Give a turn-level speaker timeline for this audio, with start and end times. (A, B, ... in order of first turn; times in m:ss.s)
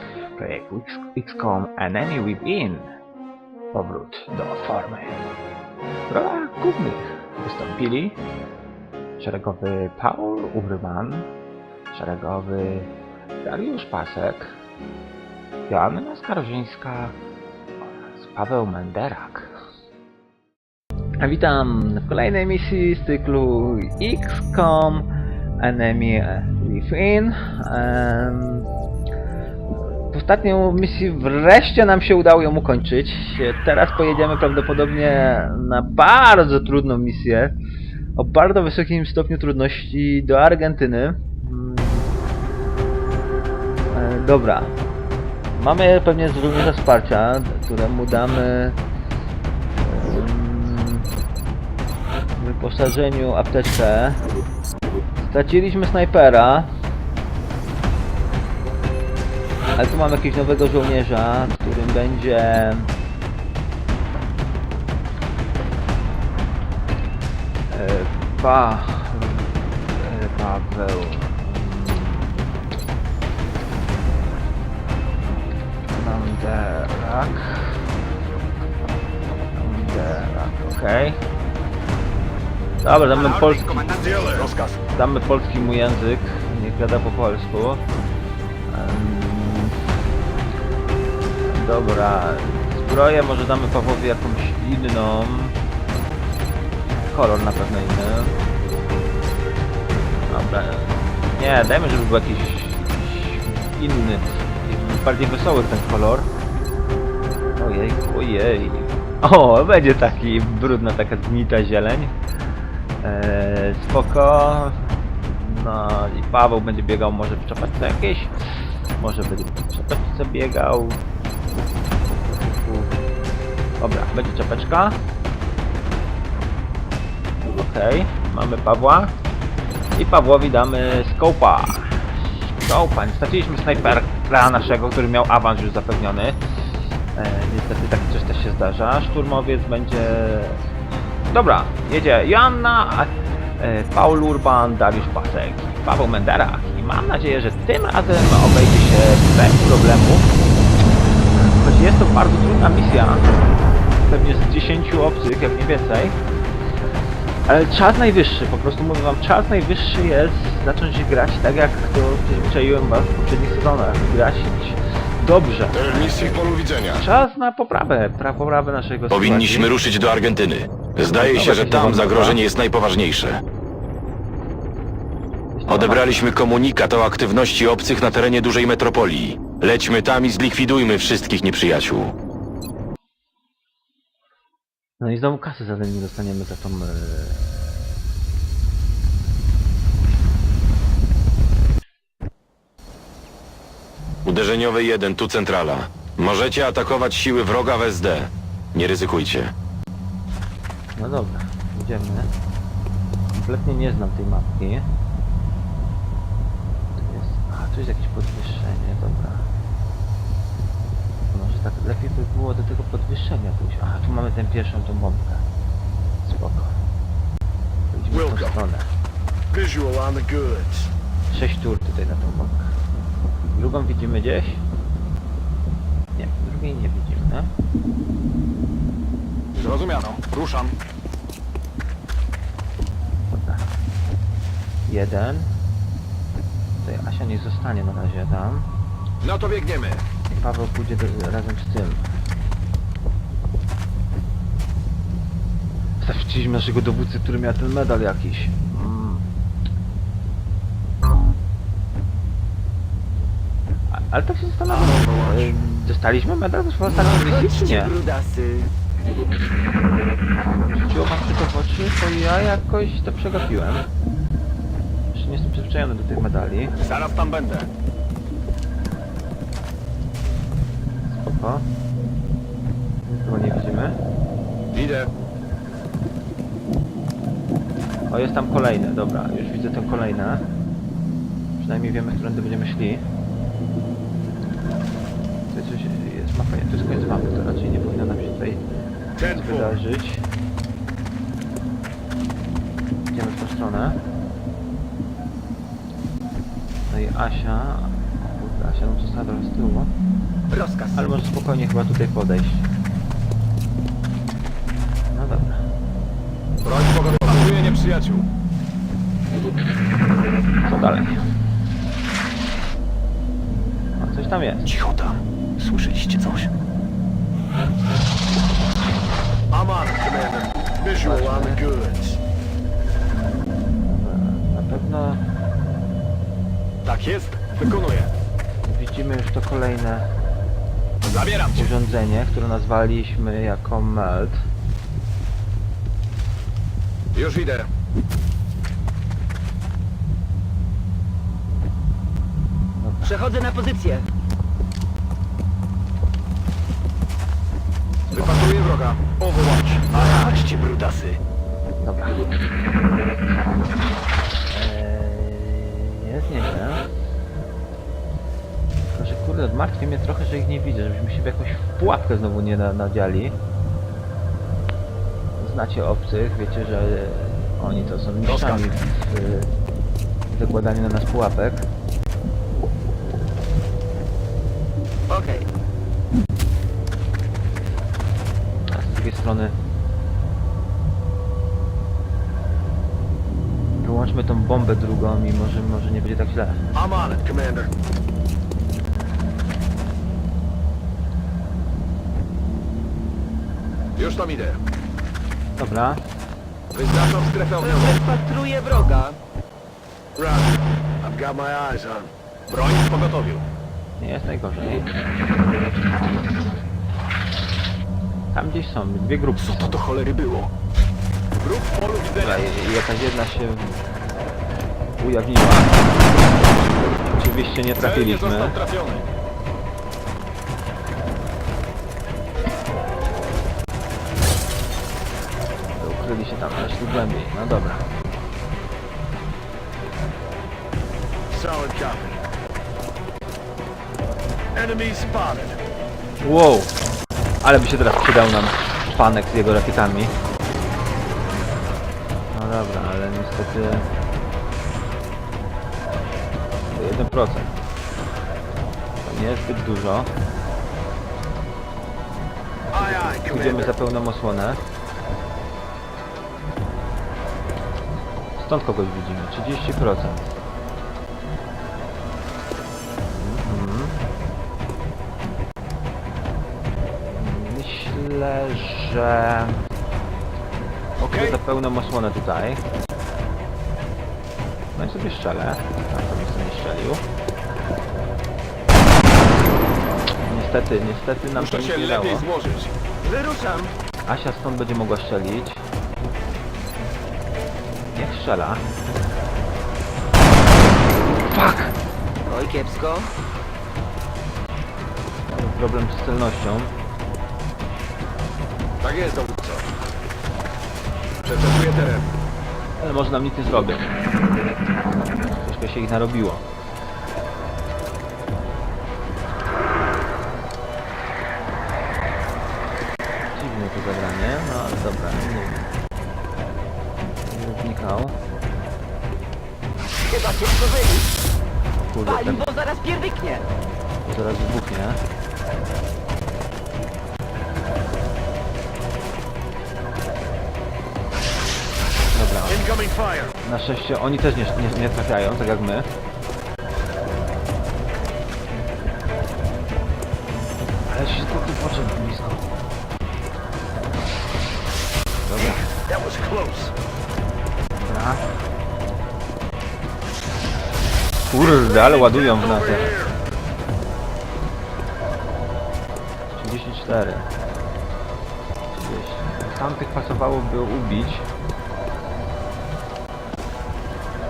0:00.4-0:02.9 A
0:03.7-0:05.2 A
0:06.1-0:08.2 A
0:09.2-0:11.3 A
0:11.9-0:12.9 A
0:13.4-0:14.6 A
0:15.7-0:17.2 A
0:18.2-0:19.5 A
0:21.2-0:25.1 A
0:25.6-0:28.7 A
0:30.1-0:37.5 A
0:38.2-0:42.1 A
0:43.9-0:44.7 A
0:45.6-0:48.8 A
0:49.8-0:51.1 A
0:52.4-0:54.2 A
0:55.2-0:56.7 A
0:59.8-1:02.9 A
1:07.7-1:12.4 A
1:15.9-1:17.8 A
1:19.6-1:21.2 A
1:22.8-1:23.9 A
1:23.1-1:24.5 B
1:23.4-1:24.8 C
1:24.9-1:27.8 A
1:28.7-1:29.8 A
1:31.5-1:35.5 A
1:37.1-1:38.4 A
1:40.3-1:46.3 A
1:47.6-1:52.1 A
1:53.0-1:58.3 A
1:59.0-2:01.0 A
2:01.5-2:02.9 A
2:03.8-2:05.0 A
2:07.4-2:09.1 A
2:10.0-2:12.0 A
2:12.6-2:16.4 A
2:17.2-2:20.6 A
2:21.3-2:30.3 A
2:31.4-2:33.3 A
2:34.0-2:36.2 A
2:37.5-2:49.7 A
2:45.7-2:47.0 C
2:49.1-2:53.4 D
2:51.0-2:52.4 A
2:55.5-2:56.3 A
2:55.7-3:02.1 D
3:05.0-3:07.4 A
3:14.2-3:19.5 D
3:21.0-3:22.3 A
3:23.3-3:24.8 A
3:26.9-3:29.5 A
3:31.3-3:35.4 A
3:36.2-3:36.7 A
3:37.9-3:38.9 A
3:38.1-3:38.6 C
3:39.5-3:40.9 C
3:41.3-3:42.7 A
3:43.5-3:44.6 A
3:46.2-3:47.5 A
3:49.5-3:50.8 C
3:53.3-3:53.6 A
3:54.9-3:55.5 A
3:56.8-3:58.7 A
3:59.2-4:00.0 C
4:00.3-4:02.0 A
4:06.0-4:09.2 A
4:13.9-4:17.9 A
4:14.7-4:15.5 C
4:16.8-4:18.7 B
4:20.6-4:23.8 A
4:25.1-4:26.7 A
4:26.8-4:27.7 C
4:31.1-4:31.6 A
4:33.0-4:34.0 A
4:34.7-4:35.1 C
4:38.1-4:40.4 A
4:41.6-4:43.0 A
4:45.5-4:48.6 A
4:49.2-4:49.8 C
4:49.3-4:50.2 A
4:53.1-4:54.0 A
4:56.9-4:59.9 A
5:00.5-5:01.1 B
5:00.9-5:02.6 A
5:05.1-5:05.6 A
5:06.6-5:08.2 C
5:10.6-5:11.2 A
5:14.0-5:14.7 A
5:14.7-5:15.1 C
5:15.6-5:16.4 C
5:19.5-5:22.2 C
5:21.0-5:21.6 A
5:23.9-5:25.2 A
5:26.8-5:28.1 C
5:28.6-5:30.1 A
5:31.0-5:31.7 C
5:31.5-5:34.4 A
5:37.1-5:37.7 C
5:42.8-5:43.2 A
5:43.0-5:44.0 B
5:48.1-5:51.2 C
5:50.1-5:50.3 B
5:51.8-5:52.2 A
5:54.5-5:56.8 A
5:58.9-6:03.4 A
6:05.4-6:09.5 A
6:08.2-6:08.7 C
6:10.3-6:11.7 A
6:15.1-6:15.4 B
6:18.7-6:19.5 A
6:23.8-6:26.6 A
6:26.7-6:27.7 C
6:34.0-6:34.6 C
6:35.6-6:36.0 A
6:36.7-6:38.0 C
6:37.6-6:39.1 B
6:40.2-6:43.4 C
6:44.0-6:44.9 A
6:48.3-6:49.8 A
6:49.4-6:50.5 C
6:51.4-6:52.4 C
6:52.2-6:53.8 A
6:55.0-6:56.0 A
6:57.0-6:58.6 A
6:57.8-6:59.0 C
7:05.7-7:08.0 A
7:11.3-7:12.2 C
7:14.5-7:15.6 C
7:16.2-7:16.7 A
7:17.4-7:20.1 A
7:22.3-7:23.9 A
7:26.6-7:27.6 A
7:29.0-7:30.1 A
7:32.7-7:33.7 C
7:32.8-7:34.6 A
7:38.4-7:40.2 A
7:43.1-7:44.0 A
7:47.1-7:49.6 A
7:51.0-7:51.4 C
7:51.0-7:52.6 A
7:54.7-7:57.0 A
8:00.2-8:02.3 A
8:01.3-8:02.7 C
8:03.0-8:03.7 B
8:04.0-8:05.6 A
8:07.9-8:08.6 A
8:11.2-8:11.8 A
8:12.3-8:13.1 B
8:15.3-8:16.7 A
8:18.8-8:19.7 C
8:21.2-8:22.1 C
8:22.8-8:23.9 A
8:25.4-8:26.4 A
8:33.3-8:35.7 A
8:37.2-8:38.2 A
8:40.1-8:41.1 B
8:41.8-8:42.5 A
8:42.0-8:43.5 B
8:44.0-8:45.0 A
8:52.1-8:52.7 A
8:52.4-8:53.3 C
8:53.4-8:55.9 A
9:00.9-9:02.5 A
9:05.2-9:05.6 A
9:05.5-9:06.7 C
9:07.8-9:08.2 A
9:11.2-9:12.9 A
9:11.4-9:13.1 C
9:16.3-9:17.3 A
9:18.7-9:21.2 A